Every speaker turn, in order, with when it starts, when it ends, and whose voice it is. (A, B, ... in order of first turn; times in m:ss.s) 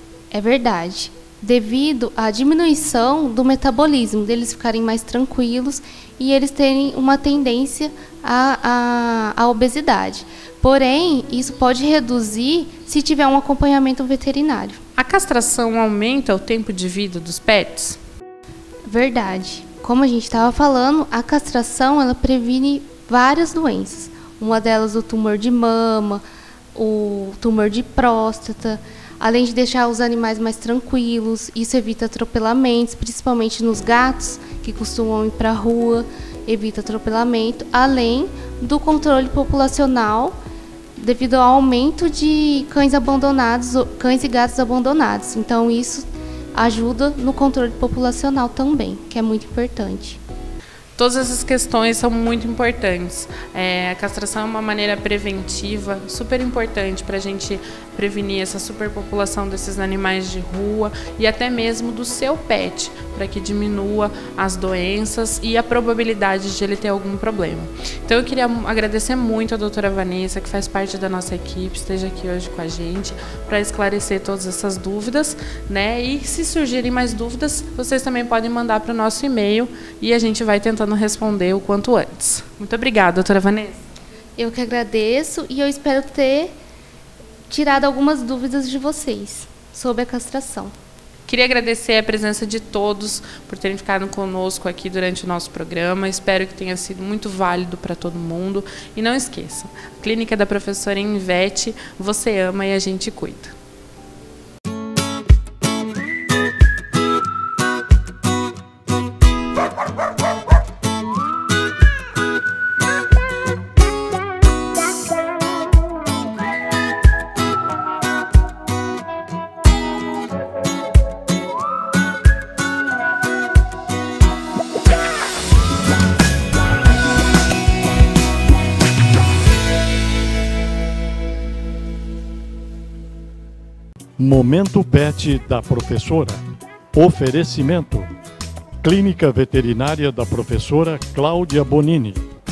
0:00.3-0:14.8 A
0:15.0-0:18.0 B
0:18.9-0:40.4 A
0:41.0-0:50.2 A
0:51.0-1:23.8 B
1:24.4-1:26.5 A
1:27.5-1:30.7 A
1:31.3-1:43.5 B
2:14.2-2:16.4 C
2:16.9-2:18.1 C
2:18.8-2:22.2 C